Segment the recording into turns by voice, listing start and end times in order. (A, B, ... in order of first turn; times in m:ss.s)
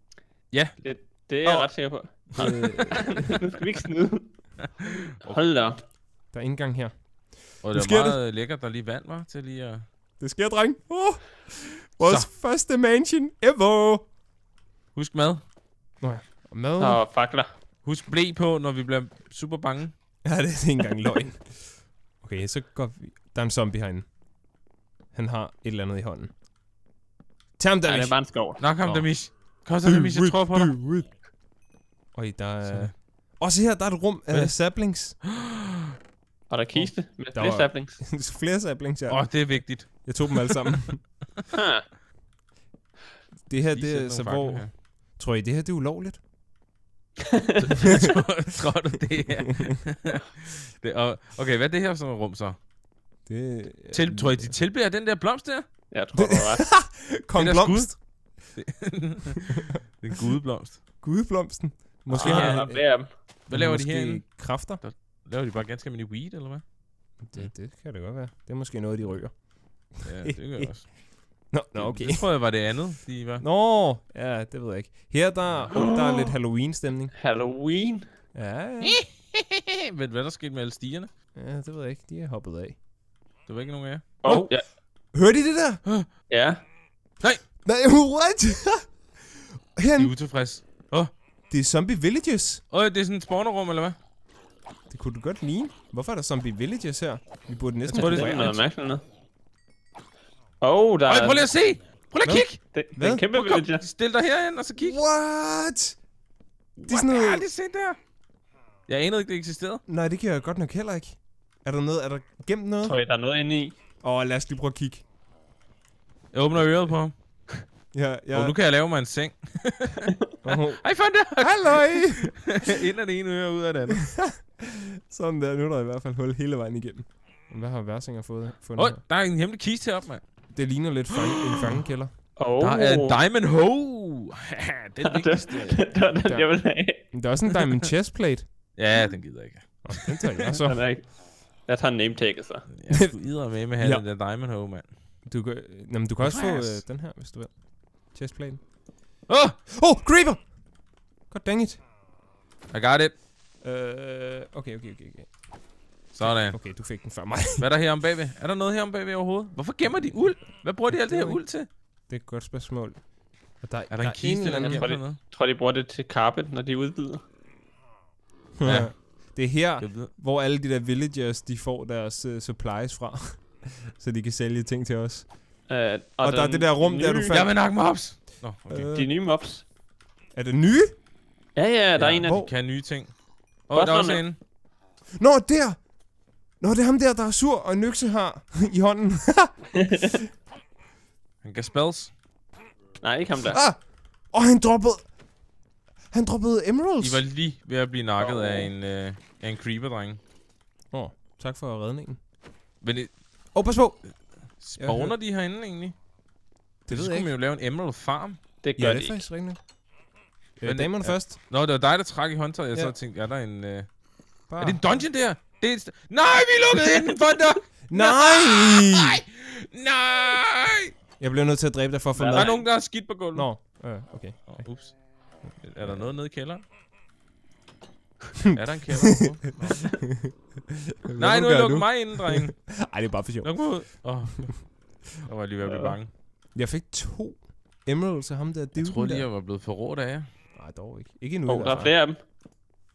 0:00.5-0:00.8 A
0:00.8-0:04.4 B
0:02.4-0:03.4 C
0:05.2-0:05.8 B
0:06.3-0:07.0 C
0:07.5-0:08.2 C
0:07.6-0:09.8 A
0:10.2-0:14.1 C
0:12.0-0:12.3 A
0:15.0-0:15.4 A
0:16.0-0:17.0 C
0:16.8-0:17.5 B
0:17.8-0:19.9 A
0:20.2-0:24.1 C
0:25.1-0:26.3 C
0:27.6-0:28.2 C
0:27.9-0:28.6 B
0:28.6-0:30.7 A
0:28.8-0:29.1 C
0:29.8-0:31.2 C
0:32.1-0:35.2 C
0:32.6-0:32.9 A
0:36.5-0:38.0 B
0:37.3-0:41.0 C
0:39.1-0:41.0 A
0:41.5-0:41.8 B
0:43.5-0:46.2 C
0:43.7-0:44.7 A
0:47.2-0:47.6 B
0:47.6-0:52.6 A
0:53.3-0:54.5 C
0:53.9-0:55.6 A
0:55.9-0:56.7 B
0:56.2-0:58.0 C
0:57.4-1:00.8 A
1:01.0-1:02.8 C
1:02.1-1:03.1 B
1:02.2-1:02.8 A
1:03.5-1:06.6 A
1:03.5-1:04.8 C
1:07.2-1:09.4 C
1:09.9-1:10.9 C
1:10.0-1:11.0 A
1:11.5-1:12.2 C
1:11.8-1:13.4 A
1:13.4-1:17.1 C
1:15.7-1:16.3 B
1:17.2-1:18.1 B
1:18.3-1:19.0 C
1:18.8-1:21.1 A
1:21.4-1:22.8 C
1:23.5-1:24.2 A
1:24.2-1:24.6 B
1:25.1-1:25.8 C
1:26.3-1:26.6 B
1:27.6-1:30.1 C
1:30.0-1:31.1 A
1:31.5-1:32.6 C
1:32.7-1:34.0 A
1:34.9-1:38.5 C
1:37.9-1:39.0 B
1:37.9-1:38.6 A
1:40.6-1:41.4 B
1:41.1-1:42.6 A
1:42.2-1:43.2 C
1:42.6-1:43.8 B
1:43.3-1:45.0 A
1:44.8-1:46.0 C
1:46.8-1:47.4 C
1:46.8-1:48.0 A
1:48.9-1:49.8 A
1:49.9-1:53.0 C
1:52.8-1:53.8 B
1:54.0-1:55.0 C
1:56.3-1:57.1 A
1:57.9-1:58.6 C
1:58.3-2:04.1 A
2:00.4-2:02.5 C
2:04.0-2:09.0 C
2:08.8-2:10.2 A
2:10.5-2:12.1 C
2:11.1-2:11.8 A
2:12.4-2:13.2 B
2:12.6-2:15.9 A
2:15.0-2:17.0 B
2:16.2-2:18.5 C
2:18.8-2:20.5 A
2:19.8-2:20.8 C
2:20.5-2:22.7 B
2:22.7-2:24.9 A
2:23.8-2:24.1 C
2:25.3-2:28.7 C
2:26.2-2:26.8 A
2:29.3-2:29.6 A
2:29.7-2:30.6 C
2:31.3-2:31.8 C
2:32.7-2:33.1 A
2:33.6-2:35.3 C
2:36.1-2:36.7 A
2:36.2-2:37.7 C
2:37.6-2:41.7 A
2:40.9-2:41.4 C
2:42.1-2:43.0 C
2:43.6-2:44.9 C
2:43.9-2:45.2 A
2:44.6-2:47.2 B
2:48.6-2:55.3 C
2:48.6-2:50.1 A
2:55.7-2:57.4 B
2:56.2-2:57.6 C
2:57.3-2:58.9 A
2:58.7-2:59.1 C
2:58.9-2:59.6 B
3:00.3-3:00.9 C
3:01.6-3:02.4 B
3:02.0-3:03.2 A
3:02.2-3:02.5 C
3:03.7-3:04.4 A
3:03.7-3:04.2 B
3:05.2-3:05.9 C
3:06.6-3:09.6 C
3:09.8-3:10.2 B
3:11.4-3:12.1 A
3:13.0-3:13.6 B
3:13.5-3:15.1 C
3:16.1-3:17.2 C
3:17.0-3:20.2 A
3:18.2-3:18.7 C
3:20.9-3:22.2 C
3:22.8-3:23.5 A
3:23.5-3:25.2 C
3:24.6-3:26.0 A
3:26.9-3:27.3 C
3:26.9-3:28.4 A
3:28.6-3:29.2 B
3:28.8-3:29.6 C
3:30.6-3:31.4 C
3:30.6-3:33.9 A
3:34.5-3:34.8 C
3:34.6-3:40.9 A
3:37.9-3:39.2 C
3:41.2-3:42.7 C
3:42.2-3:42.6 B
3:42.3-3:43.5 A
3:43.3-3:44.7 C
3:44.5-3:46.6 A
3:48.4-3:49.3 C
3:48.6-3:49.9 A
3:50.0-3:53.9 C
3:51.2-3:52.6 A
3:53.4-3:56.1 A
3:55.7-3:56.0 B
3:56.6-3:59.3 C
3:58.8-4:00.3 A
4:00.6-4:01.9 C
4:01.5-4:02.2 B